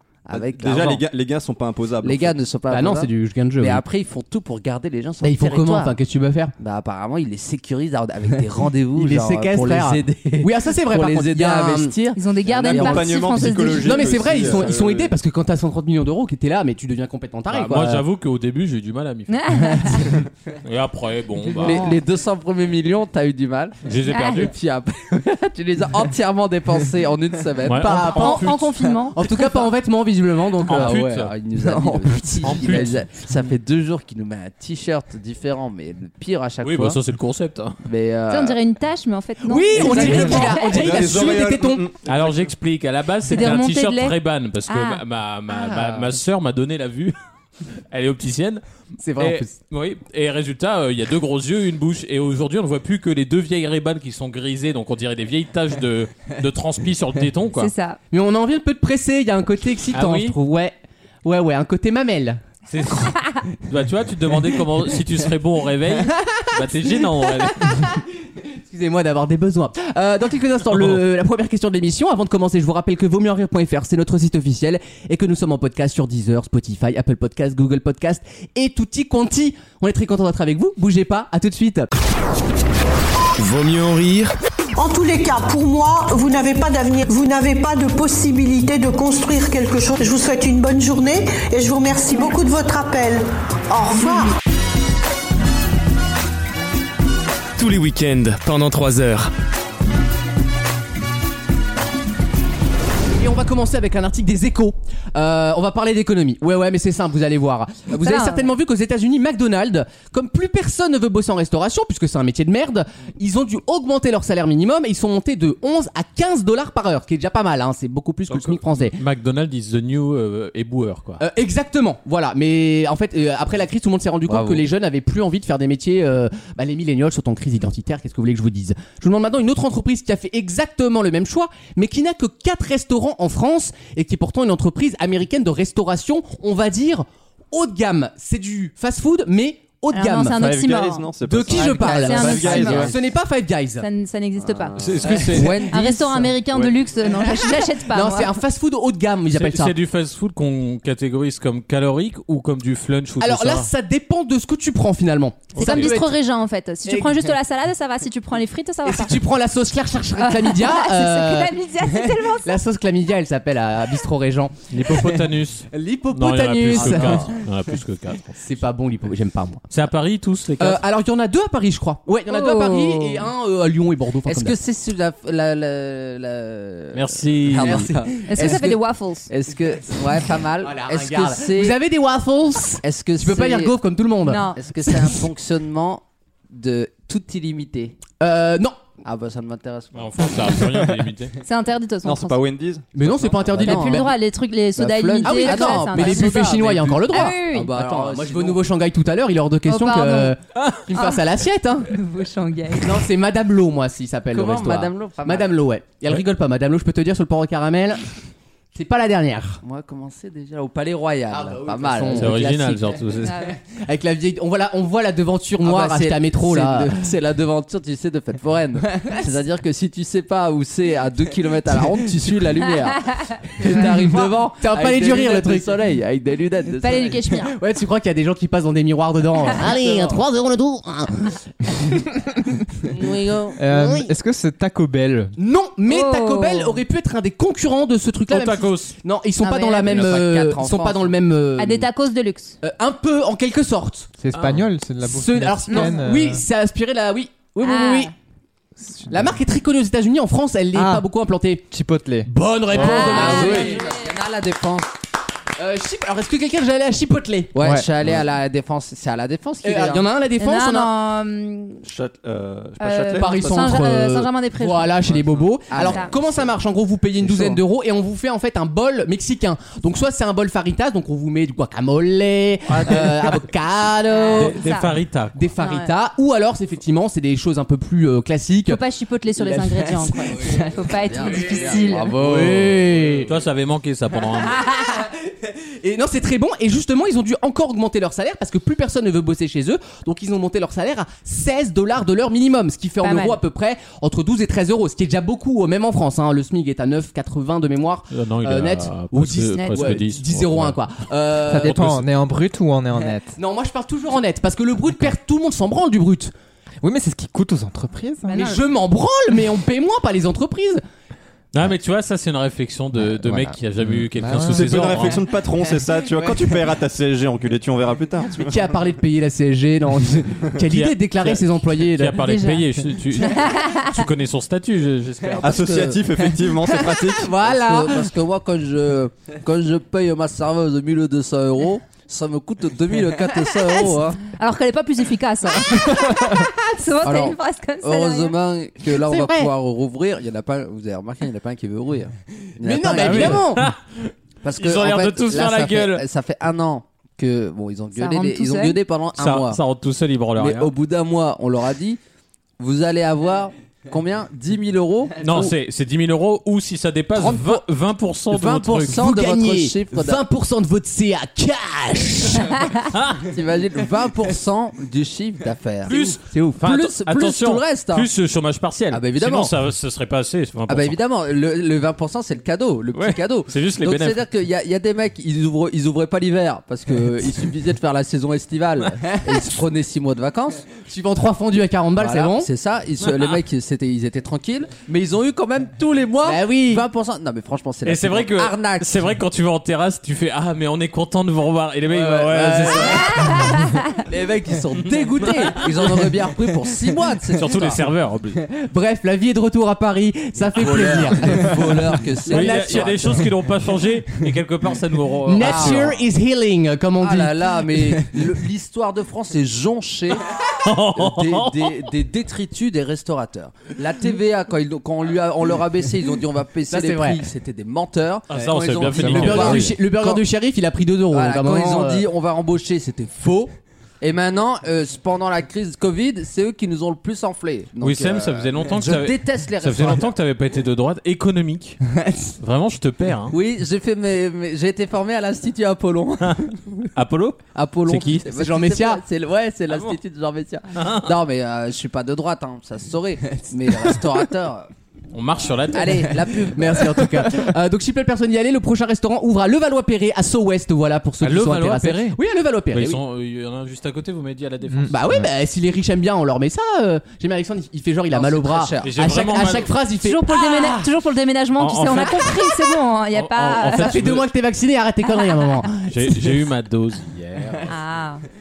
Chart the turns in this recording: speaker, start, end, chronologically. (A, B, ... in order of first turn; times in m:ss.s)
0:00.2-0:01.0 A
0:00.3-0:02.4 B
0:02.0-0:05.9 A
0:02.7-0:03.8 C
0:05.2-0:06.5 C
0:06.6-0:13.1 A
0:08.9-0:11.9 C
0:12.2-0:14.3 D
0:12.4-0:15.1 B
0:13.7-0:18.0 C
0:17.5-0:20.1 E
0:19.3-0:20.2 D
0:20.6-0:21.8 E
0:21.5-0:22.0 D
0:21.6-0:23.8 A
0:23.8-0:24.5 E
0:24.0-0:24.5 D
0:24.3-0:28.1 A
0:27.6-0:28.9 E
0:27.8-0:31.0 C
0:28.0-0:29.3 D
0:30.6-0:31.3 E
0:30.7-0:37.0 A
0:31.7-0:32.8 C
0:32.4-0:33.0 E
0:36.6-0:37.8 E
0:37.8-0:38.6 A
0:38.3-0:40.8 D
0:39.4-0:41.8 C
0:39.8-0:42.2 B
0:39.9-0:40.4 E
0:40.0-0:40.3 A
0:42.0-0:47.1 E
0:43.3-0:44.1 D
0:44.7-0:45.0 D
0:45.5-0:46.1 C
0:47.9-0:48.6 E
0:49.0-0:49.5 C
0:49.2-0:57.7 E
0:57.6-0:58.0 D
0:58.1-1:02.4 C
0:59.9-1:00.4 E
1:02.7-1:07.9 E
1:07.7-1:08.0 C
1:08.6-1:21.9 C
1:23.4-1:24.3 F
1:24.8-1:34.3 G
1:37.6-1:39.3 F
1:43.1-1:59.0 C
1:48.0-1:48.5 D
1:58.3-2:01.2 E
2:01.2-2:20.4 C
2:04.3-2:04.6 A
2:19.9-2:21.1 D
2:20.3-2:22.9 B
2:21.2-2:23.8 C
2:21.5-2:23.0 A
2:21.7-2:22.9 D
2:23.8-2:24.8 D
2:24.5-2:26.3 A
2:24.8-2:25.6 E
2:25.0-2:25.6 C
2:25.4-2:28.3 D
2:27.2-2:29.7 C
2:29.3-2:33.7 E
2:33.2-2:36.2 C
2:35.5-2:39.2 D
2:35.6-2:35.9 E
2:36.8-2:37.3 C
2:38.8-2:47.5 C
2:40.2-2:42.6 D
2:44.7-2:48.4 E
2:46.8-2:47.1 A
2:48.4-2:49.6 C
2:49.7-2:50.8 E
2:50.6-2:54.6 C
2:52.3-2:53.2 D
2:54.2-3:01.8 A
2:56.9-2:57.9 E
2:57.6-2:58.7 C
2:58.3-2:59.3 D
3:00.6-3:04.4 C
3:02.8-3:03.7 A
3:04.2-3:04.6 D
3:04.5-3:08.0 A
3:08.2-3:08.8 C
3:09.0-3:10.6 A
3:09.9-3:11.3 E
3:11.4-3:12.4 D
3:12.0-3:12.9 B
3:12.9-3:14.1 C
3:13.0-3:14.1 A
3:13.6-3:16.5 D
3:14.8-3:18.6 A
3:15.2-3:21.9 C
3:17.1-3:17.7 D
3:19.7-3:20.3 D
3:20.9-3:21.2 D
3:21.9-3:23.0 D
3:22.8-3:28.0 C
3:24.3-3:25.5 A
3:28.7-3:29.6 C
3:29.6-3:32.9 A
3:31.3-3:32.4 C
3:32.1-3:33.4 E
3:33.2-3:33.6 D
3:33.6-3:36.9 C
3:35.6-3:47.3 A
3:43.6-3:45.7 C
3:46.8-3:47.6 D
3:47.5-3:52.2 C
3:49.5-3:50.2 A
3:52.9-3:53.6 A
3:53.6-3:55.3 H
3:53.7-3:54.1 C
3:55.4-4:01.9 C
3:55.9-3:56.8 D
3:58.3-3:58.9 E
3:59.4-4:00.1 D
3:59.8-4:01.1 A
4:01.6-4:02.6 D
4:02.6-4:04.1 C
4:04.2-4:06.4 H
4:04.3-4:04.7 E
4:05.0-4:08.1 C
4:05.7-4:06.0 D
4:07.6-4:08.1 D
4:08.8-4:09.4 H
4:09.1-4:11.6 C
4:10.7-4:11.0 H
4:11.7-4:12.3 H
4:12.3-4:13.8 C
4:12.6-4:13.4 E
4:12.7-4:14.9 A
4:12.7-4:14.0 D
4:15.6-4:17.5 C
4:17.5-4:20.0 A
4:17.6-4:17.9 H
4:19.6-4:20.9 C
4:20.4-4:21.8 D
4:21.8-4:23.7 B
4:22.8-4:25.1 D
4:23.2-4:34.6 C
4:25.1-4:25.4 B
4:25.7-4:26.5 A
4:25.8-4:26.1 D
4:27.2-4:27.6 A
4:32.7-4:33.4 E
4:34.1-4:34.9 D
4:34.4-4:35.5 E
4:35.3-4:38.8 C
4:35.6-4:35.9 D
4:38.6-4:42.2 D
4:39.4-4:40.0 C
4:40.2-4:43.1 A
4:42.1-4:43.3 C
4:42.2-4:44.6 E
4:44.9-5:01.8 C
4:53.0-4:53.4 D
4:58.1-5:00.8 E
4:59.5-4:59.9 D
5:01.4-5:03.4 H
5:01.4-5:02.1 E
5:03.4-5:06.3 C
5:06.8-5:08.4 H
5:08.3-5:08.6 D
5:08.3-5:10.8 C
5:11.5-5:15.3 E
5:13.0-5:14.8 H
5:14.4-5:18.7 B
5:18.3-5:22.2 C
5:20.7-5:25.6 E
5:22.2-5:24.0 D
5:25.3-5:26.0 A
5:25.4-5:27.4 B
5:26.7-5:28.1 C
5:27.4-5:34.2 A
5:33.8-5:38.3 D
5:37.0-5:43.4 A
5:39.0-5:39.5 C
5:42.6-5:43.7 C
5:43.0-5:46.0 E
5:44.4-5:49.6 A
5:47.9-5:48.8 D
5:49.2-5:50.7 E
5:50.4-5:52.0 A
5:52.6-5:55.5 A
5:55.2-5:59.0 E
5:57.2-5:57.6 C
5:58.3-6:00.2 A
5:58.9-6:02.6 C
6:02.9-6:03.3 E
6:03.2-6:05.9 A
6:05.9-6:06.6 C
6:05.9-6:11.0 E
6:06.6-6:08.1 A
6:08.9-6:09.5 A
6:10.7-6:20.6 A
6:12.9-6:14.2 E
6:20.8-6:22.5 C
6:22.0-6:29.0 A
6:23.0-6:23.4 E
6:26.2-6:26.8 C
6:27.8-6:33.5 E
6:31.9-6:33.5 C
6:33.1-6:34.0 D
6:34.0-6:37.8 A
6:35.2-6:35.6 E
6:37.4-6:38.4 E
6:38.5-6:43.2 C
6:40.6-6:41.5 E
6:40.6-6:43.2 A
6:42.3-6:46.0 E
6:45.2-6:48.2 C
6:45.4-6:45.9 A
6:47.0-6:50.2 A
6:50.3-6:51.8 E
6:50.9-7:00.2 A
6:56.7-6:57.2 C
6:58.3-6:59.8 E
6:59.0-7:02.0 C
7:01.1-7:10.1 A
7:07.8-7:11.8 E
7:12.0-7:12.3 C
7:12.4-7:13.3 E
7:13.3-7:16.7 A
7:16.9-7:18.2 E
7:17.5-7:24.7 A
7:18.3-7:19.0 C
7:19.7-7:20.0 E
7:20.7-7:21.1 E
7:23.7-7:24.0 C
7:25.1-7:26.2 E
7:25.7-7:27.0 A
7:26.5-7:33.0 C
7:31.2-7:32.2 E
7:32.7-7:34.9 E
7:34.7-7:35.2 H
7:34.9-7:40.8 C
7:38.1-7:39.0 A
7:38.8-7:39.7 E
7:40.0-7:44.0 D
7:41.6-7:42.5 E
7:43.1-7:44.3 E
7:43.7-7:45.9 C
7:45.1-7:45.6 D
7:45.9-7:47.7 E
7:47.6-7:48.2 D